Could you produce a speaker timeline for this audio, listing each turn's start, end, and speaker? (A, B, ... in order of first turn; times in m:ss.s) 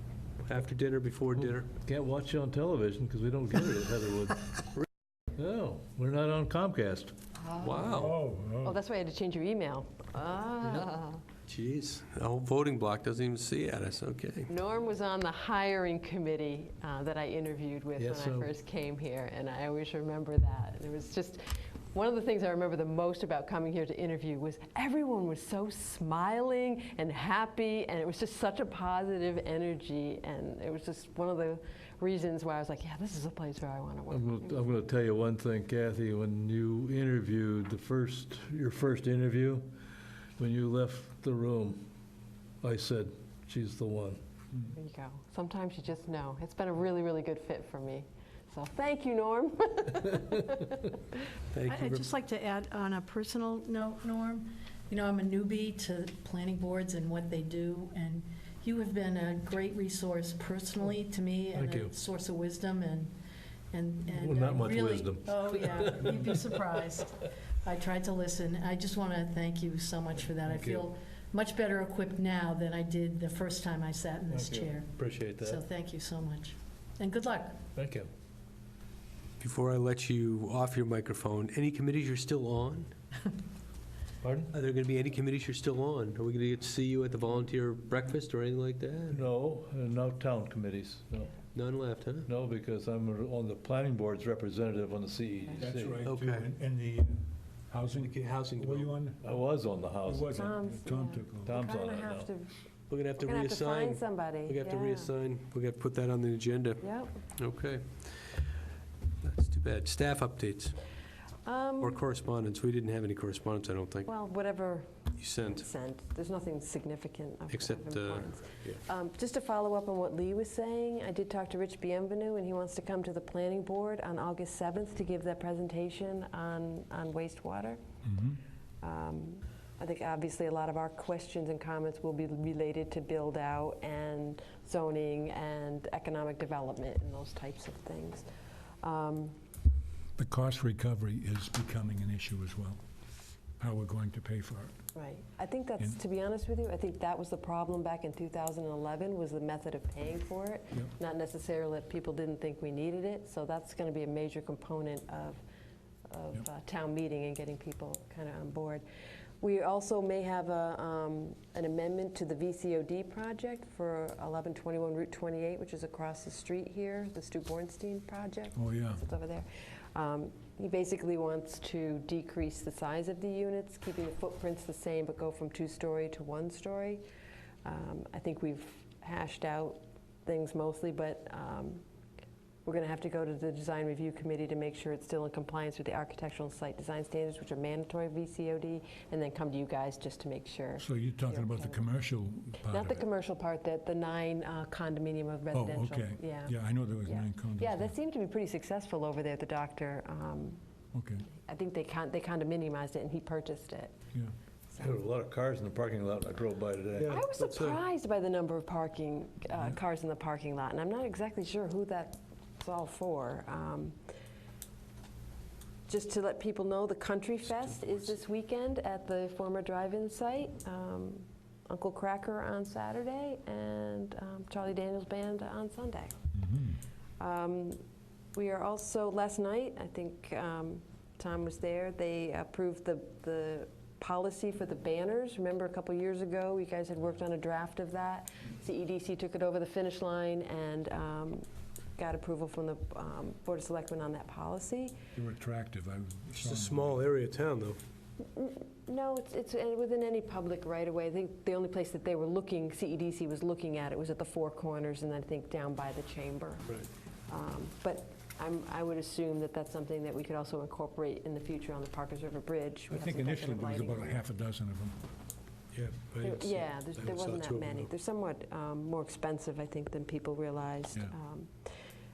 0:00.4-0:01.7 A
0:01.4-0:04.5 B
0:05.3-0:07.2 B
0:07.4-0:11.2 C
0:07.6-0:08.2 A
0:07.9-0:08.8 D
0:11.5-0:14.5 A
0:14.5-0:34.7 C
0:18.0-0:18.5 B
0:34.1-0:39.8 B
0:40.4-0:41.8 B
0:42.6-0:44.2 B
0:44.7-0:51.0 C
0:51.5-0:52.1 A
0:51.7-1:03.1 E
1:01.5-1:01.9 B
1:03.7-1:17.6 E
1:04.1-1:06.9 B
1:10.4-1:10.9 B
1:14.3-1:15.6 B
1:17.8-1:18.1 B
1:19.4-1:22.9 A
1:24.2-1:24.5 B
1:24.5-1:29.2 A
1:29.1-1:31.4 B
1:31.5-1:32.3 A
1:32.3-1:36.0 B
1:35.6-1:39.2 D
1:36.0-1:36.5 A
1:37.9-1:38.9 A
1:39.2-1:40.5 B
1:40.0-1:41.6 D
1:40.3-1:42.5 C
1:41.5-1:42.3 B
1:42.9-1:48.3 A
1:43.2-1:45.1 C
1:46.8-1:47.1 C
1:49.2-1:50.8 A
1:51.4-1:52.0 C
1:51.8-1:54.1 A
1:54.1-2:07.8 C
1:55.2-1:55.7 A
1:57.5-1:58.8 A
2:08.0-2:08.4 D
2:08.8-2:18.3 C
2:18.8-2:19.4 C
2:20.2-2:22.8 D
2:23.6-2:24.8 D
2:25.0-2:35.4 C
2:36.1-2:38.8 C
2:39.4-2:57.0 C
2:48.6-2:49.0 D
2:57.6-3:01.8 C
3:02.6-3:11.9 C
3:10.8-3:13.0 D
3:12.6-3:20.6 C
3:15.5-3:17.9 D
3:20.9-3:21.3 D
3:21.3-3:24.0 C
3:24.8-3:27.2 B
3:27.0-3:34.0 C
3:27.3-3:27.8 A
3:35.9-3:46.2 C
3:46.3-3:46.8 D
3:47.2-3:47.8 C
3:48.4-4:01.5 C
4:02.0-4:05.0 C
4:05.2-4:07.0 D
4:06.3-4:07.8 A
4:08.2-4:16.7 C
4:17.3-4:24.2 C
4:22.9-4:25.0 D
4:25.7-4:27.3 D
4:26.2-4:31.5 C
4:27.0-4:27.9 A